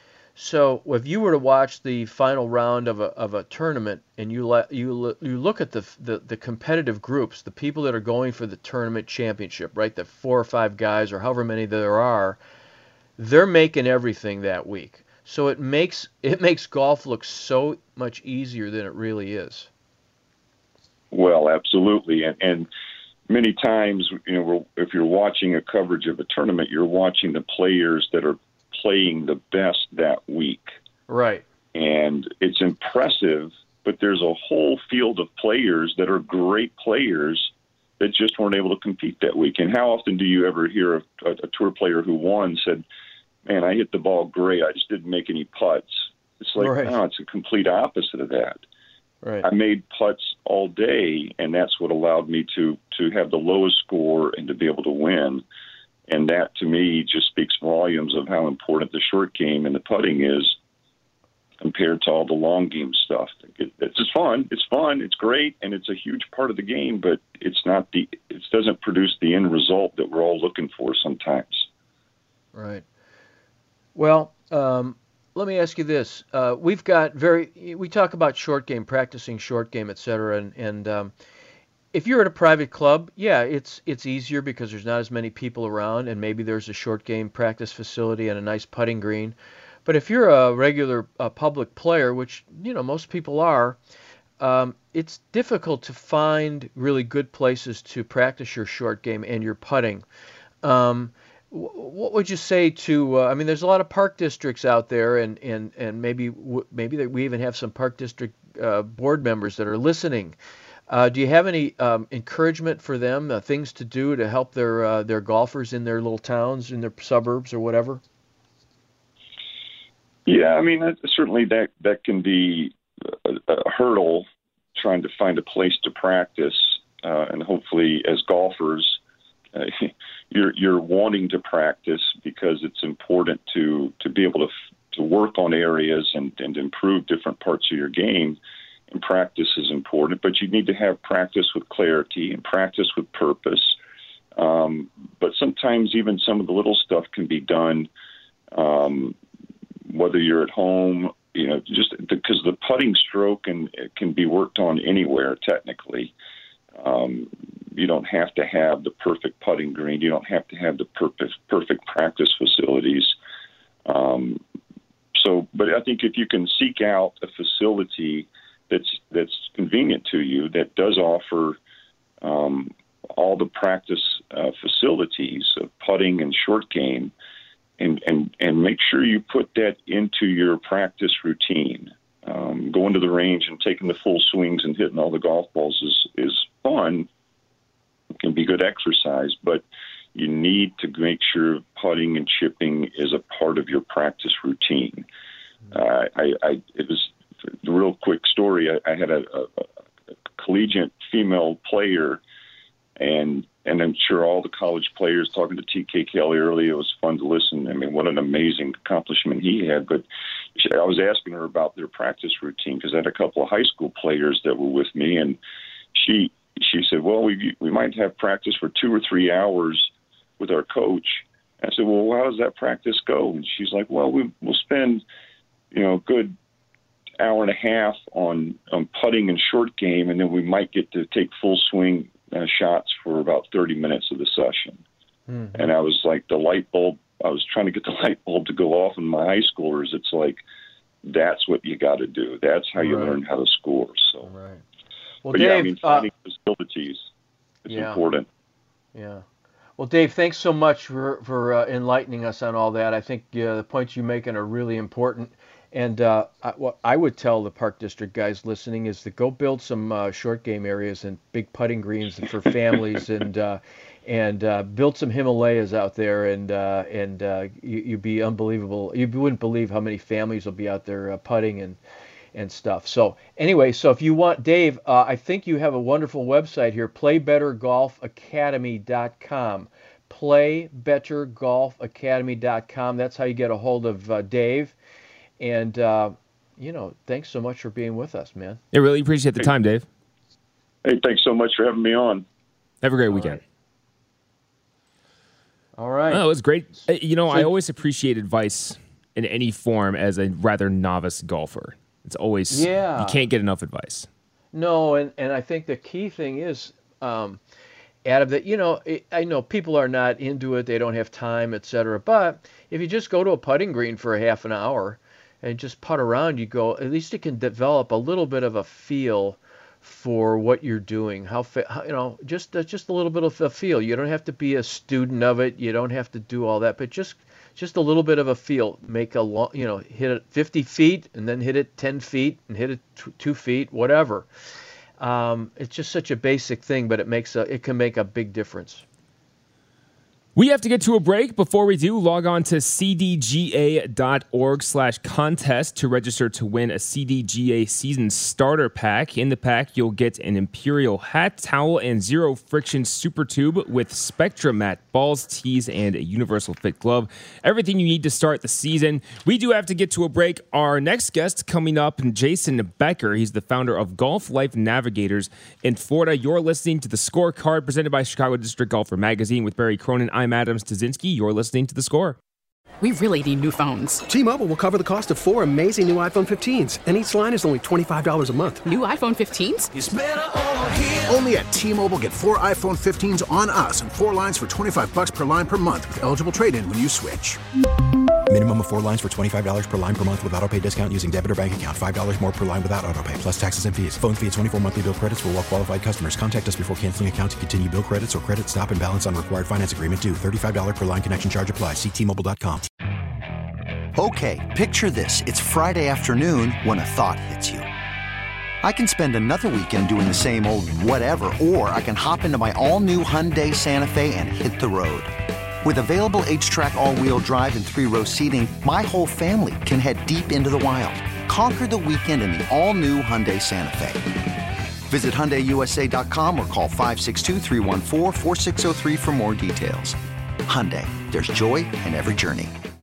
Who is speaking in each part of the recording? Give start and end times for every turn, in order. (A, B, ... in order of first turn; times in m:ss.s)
0:00.4-0:12.4 A
0:13.2-0:19.7 A
0:21.1-0:22.7 B
0:23.3-0:30.7 B
0:31.1-0:31.4 A
0:31.7-0:42.8 B
0:43.4-0:48.6 B
0:46.6-0:47.0 A
0:49.4-0:55.4 B
0:56.1-1:00.6 B
1:01.6-1:11.7 B
1:12.5-1:12.8 A
1:13.9-1:21.1 A
1:21.9-1:33.8 A
1:34.4-1:40.0 A
1:40.6-1:50.4 A
1:50.9-1:58.0 A
2:00.3-2:09.0 B
2:09.5-2:18.4 B
2:18.9-2:23.8 B
2:24.4-2:27.9 B
2:28.5-2:29.2 B
2:29.9-2:36.1 B
2:36.8-2:43.1 B
2:43.9-2:44.4 B
2:45.1-2:51.6 B
2:52.2-2:57.1 B
2:57.8-3:07.1 B
3:08.2-3:09.6 B
3:10.1-3:15.0 B
3:15.7-3:19.7 B
3:20.4-3:22.2 B
3:23.0-3:35.4 B
3:35.9-3:45.0 B
3:45.7-3:46.3 B
3:47.2-3:54.8 B
3:55.3-3:55.7 A
3:55.5-4:00.4 B
4:01.0-4:04.3 B
4:02.8-4:03.2 A
4:04.2-4:04.6 A
4:05.2-4:06.1 A
4:05.3-4:07.1 B
4:07.6-4:08.3 B
4:07.7-4:08.0 A
4:08.9-4:09.2 A
4:09.8-4:31.8 A
4:32.3-4:44.7 A
4:45.4-4:48.6 A
4:48.7-4:49.8 C
4:50.8-4:52.2 B
4:52.8-4:53.4 C
4:53.1-4:53.4 A
4:55.8-4:56.2 A
4:56.1-5:04.1 C
5:02.5-5:03.2 A
5:04.5-5:07.4 A
5:08.0-5:34.3 A
5:35.0-5:38.8 A
5:40.4-6:12.2 C
6:12.8-6:14.0 D
6:14.1-6:18.7 E
6:18.6-6:19.7 D
6:21.0-6:27.4 F
6:28.3-6:42.7 G
6:43.9-6:47.7 H
6:48.6-6:55.1 H
6:55.6-7:04.0 H
7:04.9-7:12.5 H